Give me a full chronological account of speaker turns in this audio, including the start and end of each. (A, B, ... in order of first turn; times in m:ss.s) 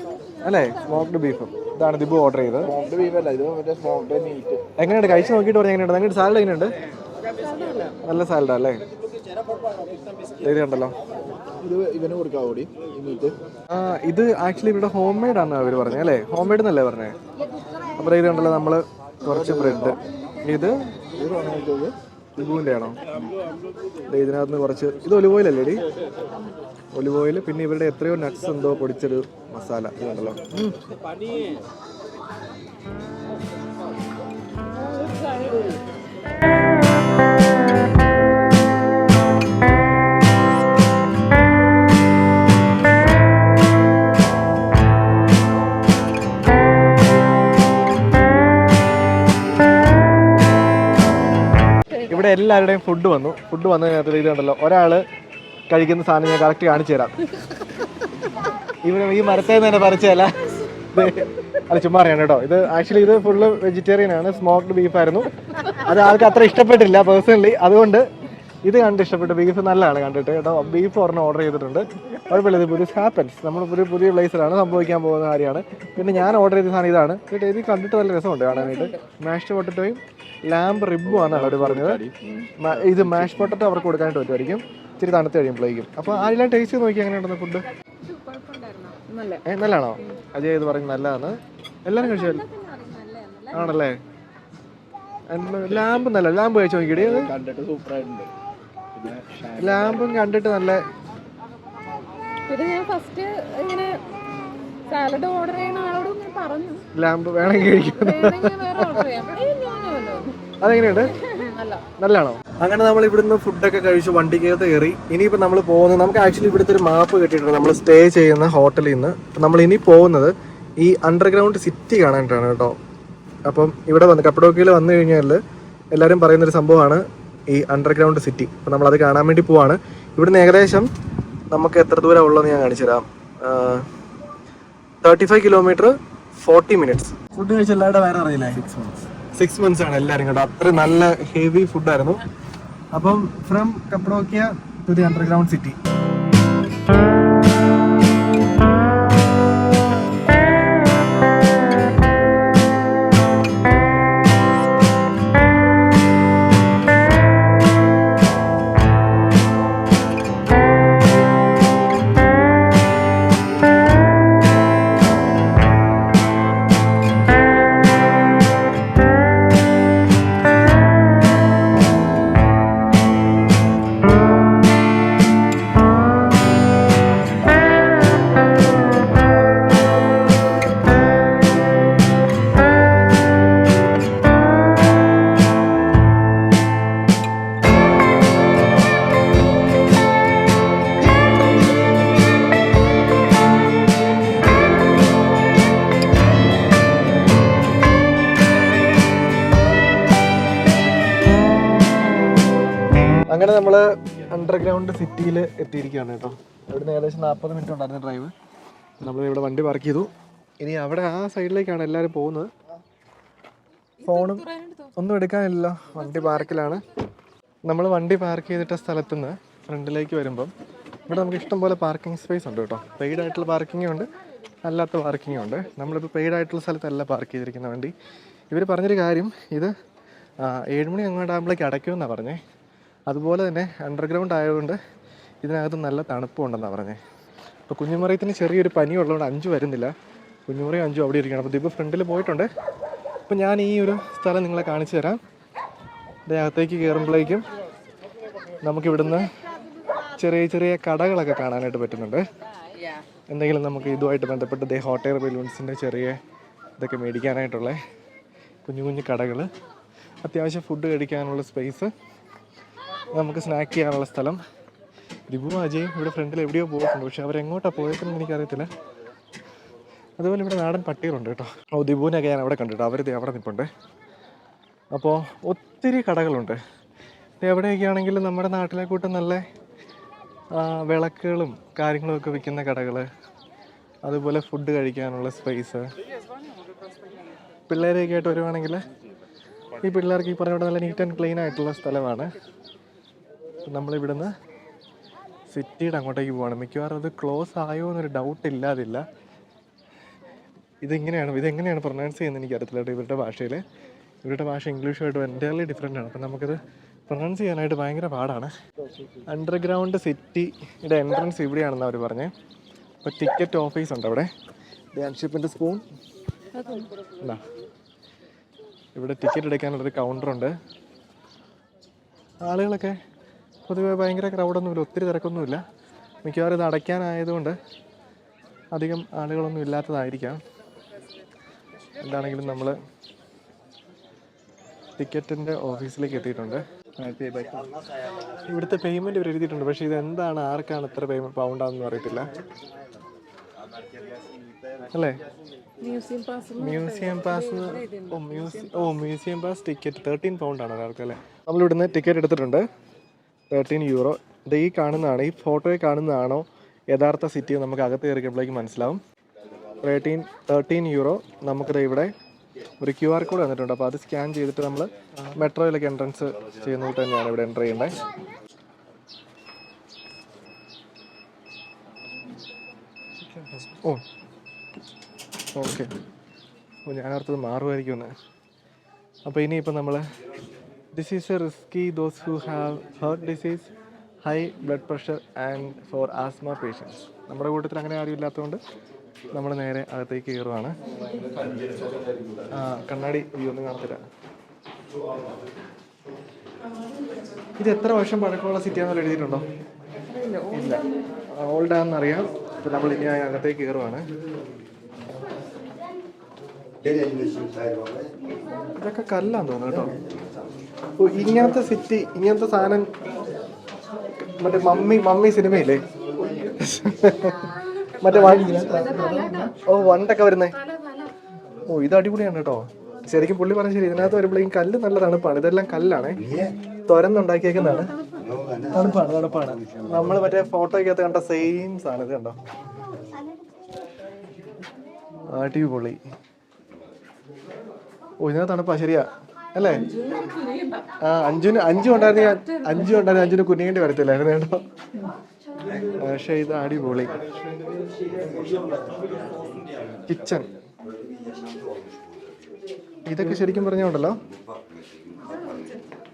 0:00.4-0:02.7 A
0:02.6-0:04.6 B
0:04.8-0:06.7 A
0:08.0-0:08.8 A
0:10.4-0:10.9 A
0:11.6-0:13.4 B
0:13.7-0:17.2 A
0:18.0-0:20.8 A
0:19.2-0:20.0 B
0:21.1-0:21.9 B
0:22.4-0:23.0 A
0:24.1-0:25.8 A
0:26.9-0:30.8 A
0:52.1-0:55.0 A
0:55.7-0:57.2 A
0:58.8-1:08.1 A
1:08.6-1:22.0 A
1:18.5-1:19.0 C
1:21.0-1:23.5 B
1:22.6-1:27.6 A
1:28.0-1:29.4 C
1:29.4-1:32.4 A
1:32.0-1:33.7 C
1:33.5-1:34.0 A
1:35.3-1:37.3 A
1:37.0-1:38.3 B
1:38.9-1:40.1 B
1:39.6-1:40.8 A
1:42.5-1:44.0 C
1:44.9-1:46.8 C
1:46.9-1:49.0 A
1:47.7-1:50.4 C
1:50.6-1:51.1 A
1:51.1-1:51.8 C
1:52.0-2:02.8 A
2:03.4-2:05.4 A
2:05.9-2:10.9 A
2:11.5-2:13.8 A
2:15.0-2:22.2 A
2:22.9-2:25.8 A
3:23.3-3:28.3 A
3:29.0-3:30.1 A
3:30.6-3:32.5 A
3:34.0-3:34.9 C
3:34.0-3:34.4 A
3:35.0-3:36.8 A
3:37.6-3:40.5 A
3:41.1-3:44.1 A
3:44.6-3:47.9 A
3:48.5-3:49.7 A
3:50.4-3:52.4 A
3:53.1-3:54.8 A
3:55.4-3:57.0 A
3:57.7-3:59.9 A
4:00.5-4:02.5 A
4:03.3-4:05.2 A
4:06.3-4:07.4 A
4:08.6-4:09.3 A
4:10.2-4:12.3 A
4:13.3-4:16.2 A
4:16.8-4:17.8 A
4:18.6-4:19.5 A
4:20.2-4:21.9 A
4:23.1-4:24.4 A
4:25.3-4:28.7 A
4:30.2-4:33.7 A
4:34.9-4:36.6 A
4:37.4-4:39.4 A
4:40.5-4:43.1 A
4:44.0-4:45.9 A
4:47.7-4:48.8 A
4:49.8-4:52.3 A
4:53.6-4:54.3 A
4:55.5-4:59.0 A
5:00.8-5:03.6 A
5:04.2-5:08.5 A
5:09.2-5:12.3 A
5:13.0-5:14.3 A
5:14.9-5:15.8 A
5:16.5-5:16.9 C
5:18.9-5:20.5 A
5:22.4-5:23.0 A
5:23.7-5:25.6 A
5:26.2-5:27.6 A
5:28.7-5:30.4 A
5:32.0-5:32.8 A
5:35.0-5:36.6 A
5:37.0-5:37.7 B
5:38.5-5:42.3 A
5:44.9-5:45.2 A
5:45.8-5:48.8 C
5:46.6-5:52.6 A
5:53.5-5:59.0 A
5:59.8-6:02.1 A
6:02.8-6:08.0 A
6:15.5-6:15.9 A
6:16.8-6:18.1 A
6:19.2-6:20.0 A
6:20.9-6:23.7 A
6:24.2-6:28.6 A
6:29.3-6:30.8 A
6:32.5-6:34.0 A
6:37.6-6:39.4 A
6:40.0-6:41.0 C
6:40.5-6:44.1 A
6:48.8-6:49.9 A
6:51.0-6:52.9 A
6:54.4-6:55.8 A
6:56.0-6:56.5 B
6:56.6-6:58.6 A
6:58.0-6:59.5 B
6:58.1-6:59.5 C
6:59.6-7:00.5 A
7:00.6-7:01.1 C
7:01.7-7:06.3 A
7:06.8-7:07.9 A
7:07.6-7:08.6 C
7:08.7-7:12.4 A
7:15.3-7:16.0 A
7:18.2-7:19.8 A
7:19.8-7:20.9 C
7:21.0-7:24.6 A
7:22.1-7:23.0 C
7:25.8-7:27.2 A
7:27.6-7:29.3 B
7:30.1-7:30.5 A
7:33.0-7:34.2 A